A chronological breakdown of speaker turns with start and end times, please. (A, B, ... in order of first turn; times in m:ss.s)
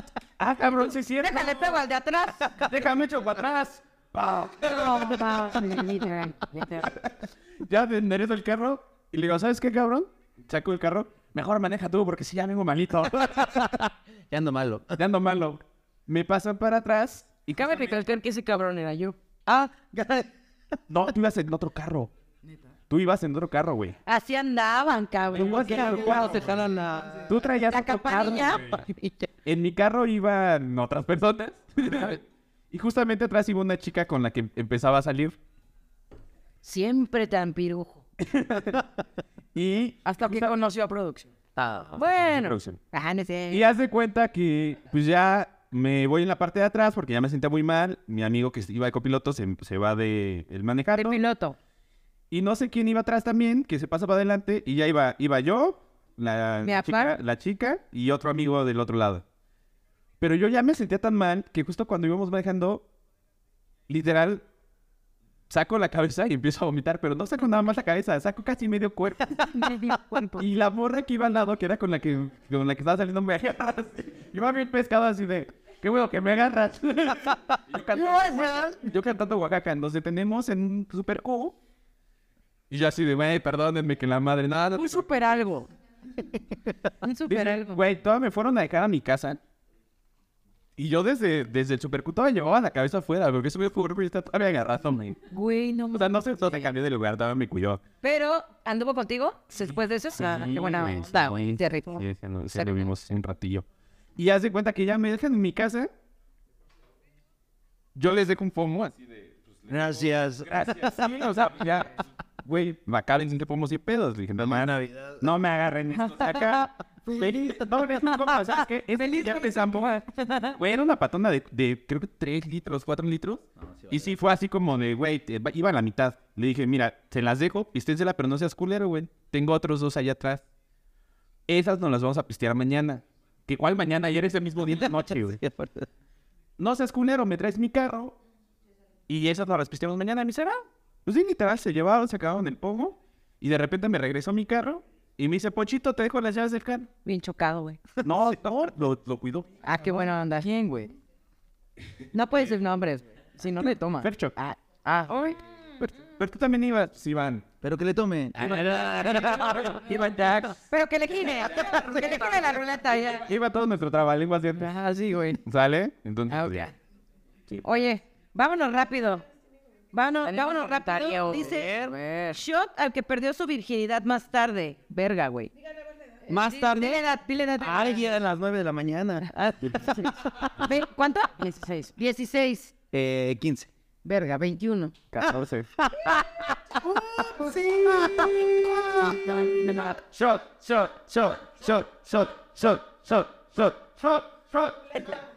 0:00.4-0:01.8 A
0:01.2-0:02.6 B
0:02.5-0:05.4 A
0:04.6-0:06.9 B
0:06.8-0:13.9 A
0:14.3-0:15.0 C
0:15.0-0:17.8 A
0:17.5-0:19.2 D
0:19.5-0:20.1 B
0:19.5-0:20.2 C
0:20.9-0:22.1 A
0:22.9-0:24.0 A
0:24.0-0:26.4 B
0:25.3-0:26.5 A
0:25.6-0:27.3 C
0:27.3-0:28.8 A
0:27.7-0:29.3 B
0:29.4-0:32.2 A
0:32.7-0:35.4 A
0:36.6-0:38.0 B
0:38.2-0:38.8 A
0:39.6-0:40.4 A
0:40.0-0:41.3 D
0:41.6-0:42.0 C
0:42.0-0:42.5 D
0:42.2-0:42.8 A
0:42.9-0:43.6 B
0:43.5-0:51.2 A
0:51.0-0:51.6 B
0:52.3-0:59.2 A
0:56.6-0:57.2 B
1:00.2-1:02.9 A
1:03.9-1:04.4 A
1:05.5-1:09.5 A
1:09.5-1:10.4 D
1:10.4-1:21.6 A
1:18.0-1:18.7 B
1:22.7-1:25.0 A
1:24.7-1:25.7 D
1:27.1-1:27.8 D
1:27.3-1:29.4 A
1:30.8-1:35.2 A
1:35.3-1:36.1 D
1:35.9-1:37.8 A
1:38.0-1:42.7 B
1:40.2-1:43.6 A
1:40.4-1:41.3 D
1:44.2-1:45.9 A
1:48.0-1:49.3 A
1:49.7-1:51.1 C
1:50.5-1:59.9 A
1:54.4-1:55.3 C
1:56.1-1:56.5 D
1:58.9-2:00.6 D
2:00.6-2:10.4 A
2:03.6-2:04.1 C
2:11.5-2:15.4 A
2:14.7-2:15.9 C
2:16.6-2:18.2 A
2:19.1-2:26.9 A
2:27.0-2:27.8 B
2:28.0-2:29.5 A
2:29.6-2:30.4 B
2:29.8-2:30.9 D
2:32.1-2:33.0 B
2:33.4-2:34.1 D
2:34.0-2:34.3 A
2:34.4-2:35.4 B
2:34.9-2:35.1 D
2:35.8-2:37.4 A
2:37.6-2:38.8 C
2:38.4-2:40.6 A
2:40.7-2:43.3 B
2:41.6-2:42.0 C
2:43.3-2:44.7 A
2:44.6-2:45.4 D
2:45.4-2:46.7 A
2:46.3-2:46.7 D
2:47.6-2:49.2 B
2:49.9-2:51.7 B
2:50.2-2:52.4 D
2:51.3-2:52.0 C
2:52.3-2:55.5 B
2:56.3-2:57.0 C
2:56.3-2:58.0 B
2:57.6-2:59.3 C
2:59.3-3:01.3 B
3:01.4-3:01.9 D
3:02.0-3:02.7 B
3:02.9-3:03.7 C
3:04.0-3:05.0 B
3:05.1-3:05.7 A
3:05.8-3:06.4 C
3:07.2-3:09.1 C
3:07.5-3:08.3 A
3:08.0-3:09.6 B
3:09.4-3:15.0 A